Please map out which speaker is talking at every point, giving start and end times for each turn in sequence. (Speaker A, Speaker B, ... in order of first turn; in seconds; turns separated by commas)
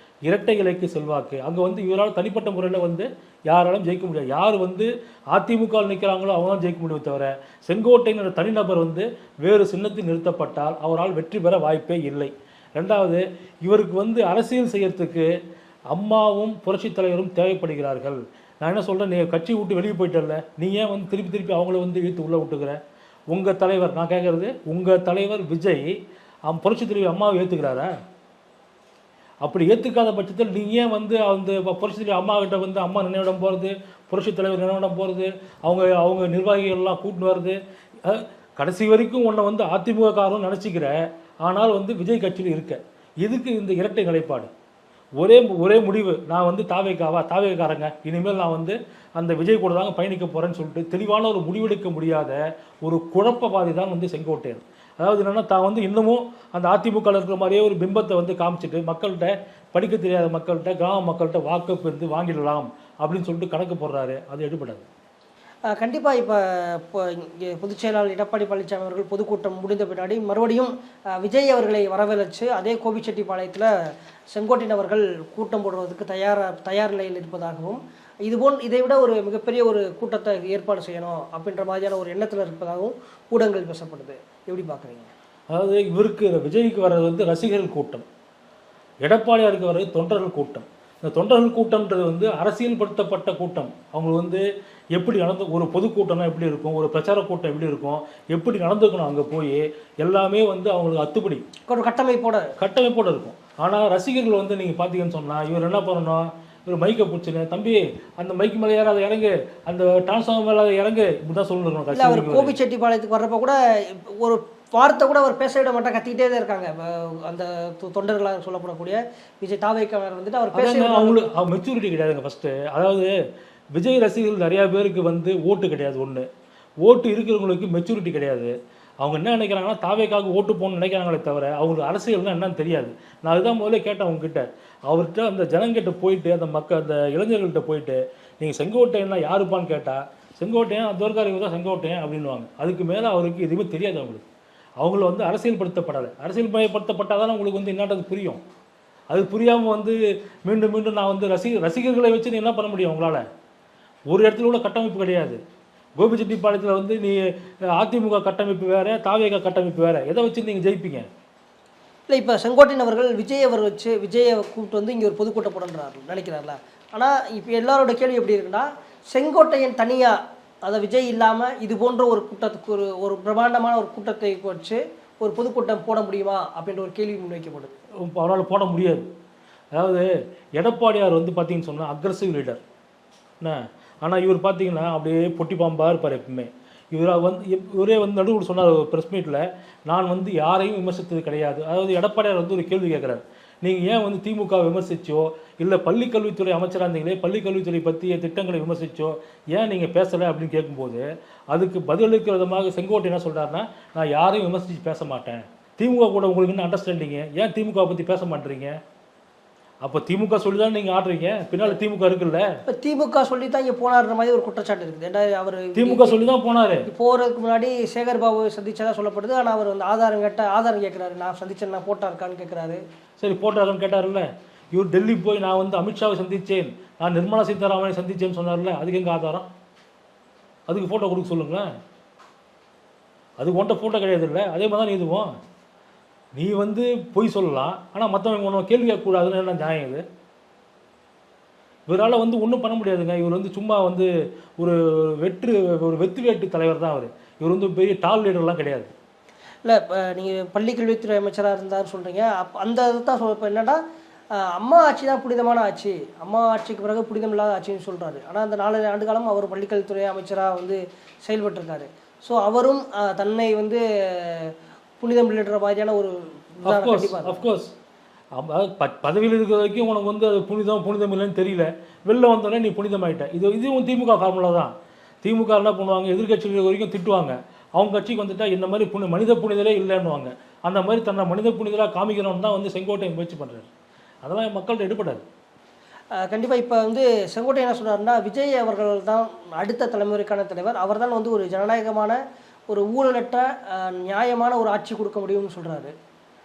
Speaker A: 0.2-15.3, Speaker A: 15.9-22.8, Speaker A: 23.3-25.9, Speaker A: 26.5-27.9, Speaker A: 29.4-44.5, Speaker A: 45.2-64.8, Speaker B: 65.7-73.7, Speaker B: 74.3-85.1, Speaker A: 85.5-88.0, Speaker A: 89.0-101.5, Speaker B: 101.7-102.5, Speaker A: 102.6-112.6, Speaker B: 111.9-121.4, Speaker A: 120.5-123.1, Speaker A: 123.8-126.3, Speaker A: 126.8-144.3, Speaker A: 144.8-148.4, Speaker A: 149.1-153.2, Speaker A: 154.1-155.4, Speaker A: 156.0-161.1, Speaker B: 162.1-177.8, Speaker A: 178.1-179.1, Speaker A: 179.7-182.6, Speaker A: 183.4-208.8, Speaker A: 209.8-212.5, Speaker B: 212.7-216.2, Speaker A: 215.8-216.9, Speaker B: 216.9-222.8, Speaker A: 223.2-229.5, Speaker A: 230.7-231.7, Speaker A: 233.4-235.3, Speaker A: 236.4-240.0, Speaker A: 241.9-248.9, Speaker B: 249.7-253.8, Speaker B: 254.4-267.4, Speaker A: 266.7-267.7, Speaker A: 268.4-274.7, Speaker A: 275.2-283.7, Speaker A: 284.2-285.2, Speaker B: 286.2-292.2, Speaker B: 292.7-295.9